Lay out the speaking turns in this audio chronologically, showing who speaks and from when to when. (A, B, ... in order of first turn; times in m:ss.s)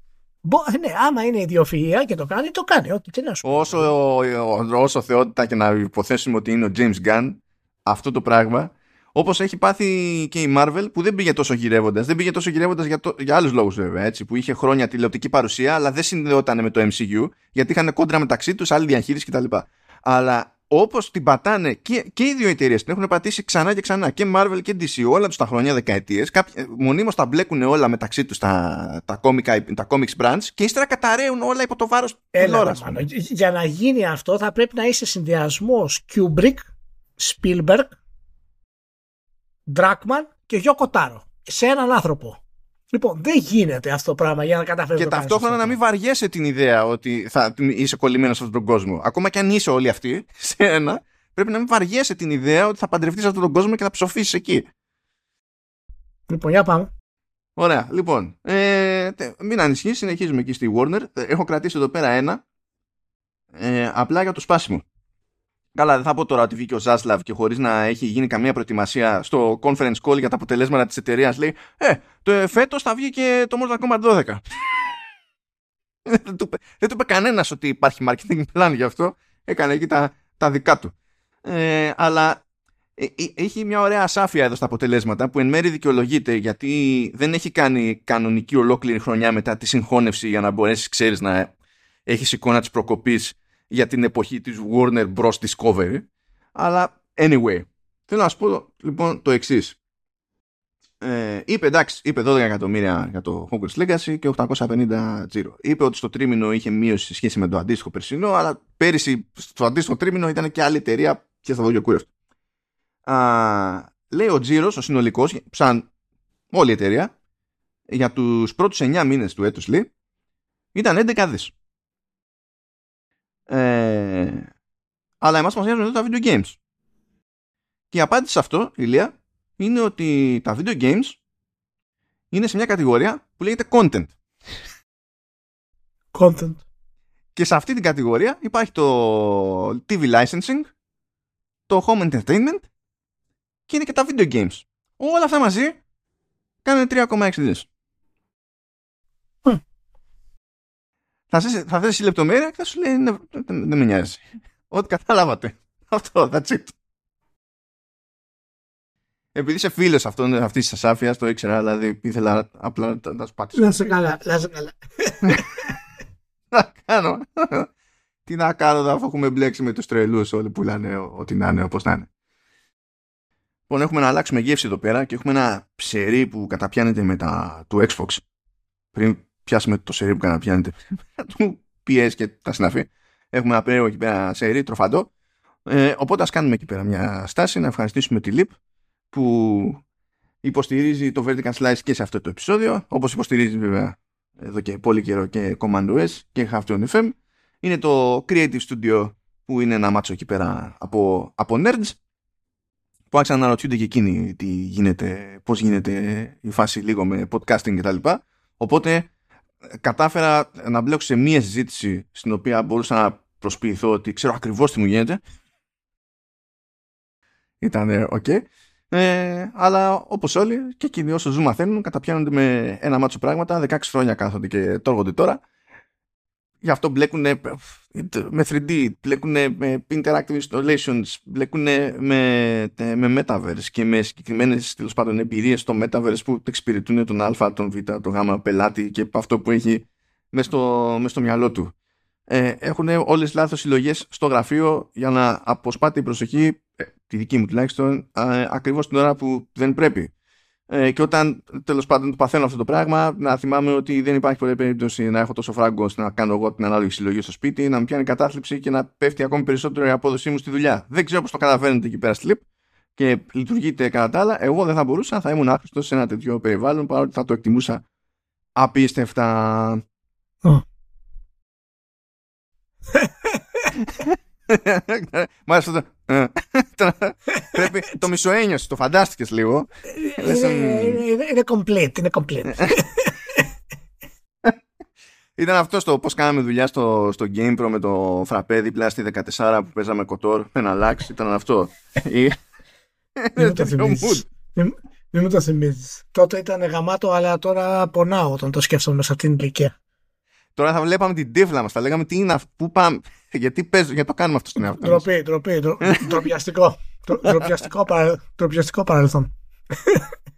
0:00.4-0:03.9 A
0:03.4-0:33.1 B
0:32.4-0:37.9 A
0:39.7-0:42.4 A
0:42.9-0:45.8 A
0:45.0-0:54.7 B
0:56.3-0:56.9 A
0:57.6-1:02.4 B
1:03.5-1:04.8 B
1:05.7-1:14.4 B
1:16.0-1:20.9 B
1:21.4-1:22.4 B
1:23.0-1:31.5 B
1:32.1-1:39.8 B
1:41.0-1:52.1 B
1:53.0-1:55.9 B
1:56.5-1:57.1 B
1:57.9-1:59.9 B
2:00.7-2:01.5 B
2:03.5-2:04.5 B
2:05.2-2:06.6 B
2:07.9-2:11.2 B
2:12.3-2:14.1 B
2:16.1-2:16.6 A
2:17.3-2:20.7 B
2:21.7-2:22.7 B
2:23.7-2:25.8 B
2:26.6-2:27.7 B
2:31.3-2:36.7 B
2:39.3-2:43.8 B
2:43.5-2:45.8 A
2:46.5-2:47.7 B
2:48.2-2:52.1 B
2:53.7-2:58.2 B
2:58.9-3:05.1 B
3:05.7-3:08.5 B
3:09.1-3:09.8 B
3:10.4-3:22.0 B
3:23.1-3:29.1 B
3:29.8-3:35.2 B
3:37.6-3:45.4 B
3:46.6-4:01.7 B
4:02.3-4:10.1 B
4:10.7-4:22.4 B
4:23.0-4:27.8 B
4:28.6-4:29.8 B
4:32.9-4:33.7 A
4:33.8-4:41.0 B
4:39.9-4:43.5 A
4:45.4-4:52.3 B
4:53.2-4:54.3 B
4:53.4-4:59.7 A
5:00.6-5:05.0 B
5:04.8-5:10.1 A
5:05.8-5:06.2 B